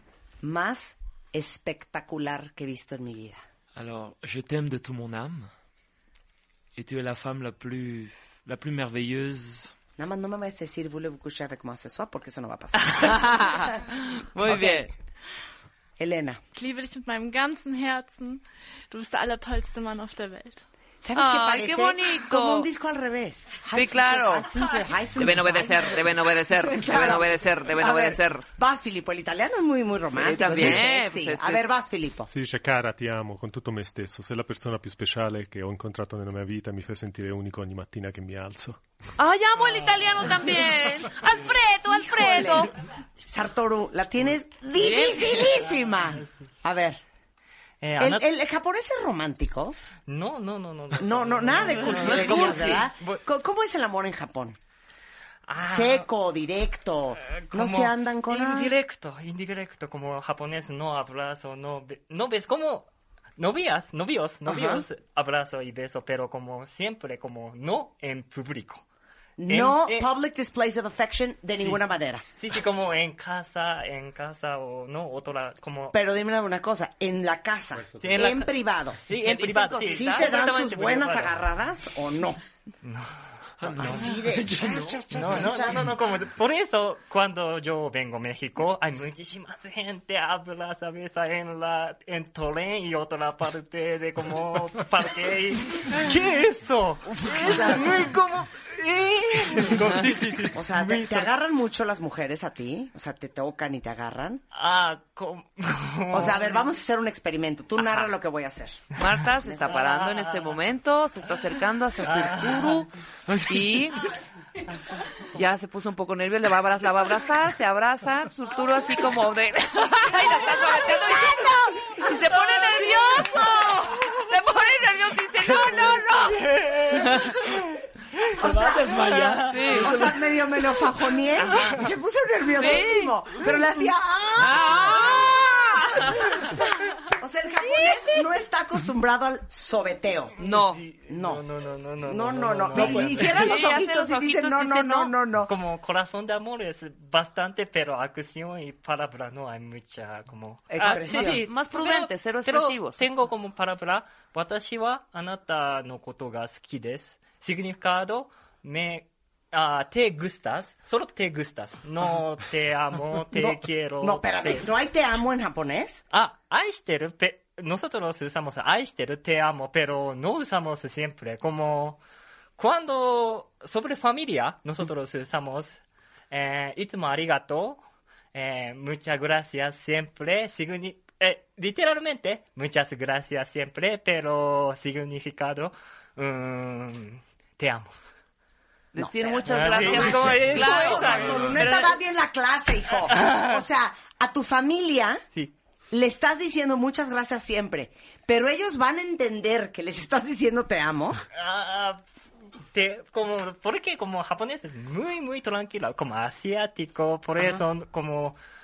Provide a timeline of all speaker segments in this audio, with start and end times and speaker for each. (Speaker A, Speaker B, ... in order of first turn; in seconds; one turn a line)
Speaker A: 0.4-3.4
Speaker B: 3.8-5.5
Speaker B: 6.8-9.7
Speaker A: 10.0-13.8
Speaker C: 12.8-14.9
Speaker A: 14.4-14.9
Speaker A: 16.0-16.4
Speaker D: 16.5-20.6
Speaker A: 21.0-32.3
Speaker C: 21.1-22.7
Speaker C: 23.7-24.5
Speaker C: 25.1-28.4
Speaker C: 30.1-31.6
Speaker E: 32.3-38.8
Speaker C: 39.2-42.7
Speaker A: 41.9-42.7
Speaker A: 43.2-47.0
Speaker C: 44.8-45.5
Speaker F: 45.9-46.4
Speaker F: 47.8-48.3
Speaker A: 48.0-49.8
Speaker F: 50.1-53.2
Speaker A: 51.0-54.6
Speaker C: 51.9-52.9
Speaker F: 55.5-56.1
Speaker A: 55.6-58.7
Speaker F: 57.2-62.9
Speaker F: 63.4-68.8
Speaker A: 64.5-64.8
Speaker A: 69.4-72.2
Speaker F: 69.5-70.1
Speaker F: 72.4-76.0
Speaker A: 75.9-79.0
Speaker F: 78.0-81.4
Speaker C: 79.1-80.3
Speaker A: 79.9-82.4
Speaker F: 82.8-83.2
Speaker B: 83.6-85.0
Speaker F: 83.7-84.1
Speaker A: 83.7-85.9
Speaker F: 85.1-101.3
Speaker A: 97.3-97.9
Speaker A: 100.5-104.4
Speaker F: 104.5-106.7
Speaker A: 106.1-108.9
Speaker C: 109.0-112.9
Speaker A: 109.5-109.7
Speaker F: 109.6-110.6
Speaker F: 112.0-112.8
Speaker B: 113.3-113.9
Speaker C: 113.5-114.0
Speaker C: 115.3-127.4
Speaker A: 120.5-124.0
Speaker F: 126.3-127.5
Speaker A: 128.4-140.4
Speaker B: 128.4-130.2
Speaker F: 128.9-129.9
Speaker C: 129.5-129.9
Speaker C: 131.4-131.8
Speaker C: 132.6-133.1
Speaker C: 134.4-136.5
Speaker F: 140.4-143.5
Speaker C: 140.4-140.8
Speaker A: 141.1-141.4
Speaker A: 142.0-145.5
Speaker C: 142.9-145.1
Speaker F: 145.5-164.7
Speaker A: 150.7-151.4
Speaker C: 150.8-153.0
Speaker A: 163.3-166.0
Speaker F: 166.1-172.0
Speaker F: 172.6-175.8
Speaker F: 176.3-177.8
Speaker F: 178.3-187.9
Speaker C: 188.9-192.0
Speaker A: 189.0-195.2
Speaker F: 189.5-191.6
Speaker F: 193.1-193.6
Speaker A: 195.9-201.2
Speaker F: 201.3-202.0
Speaker F: 202.7-208.4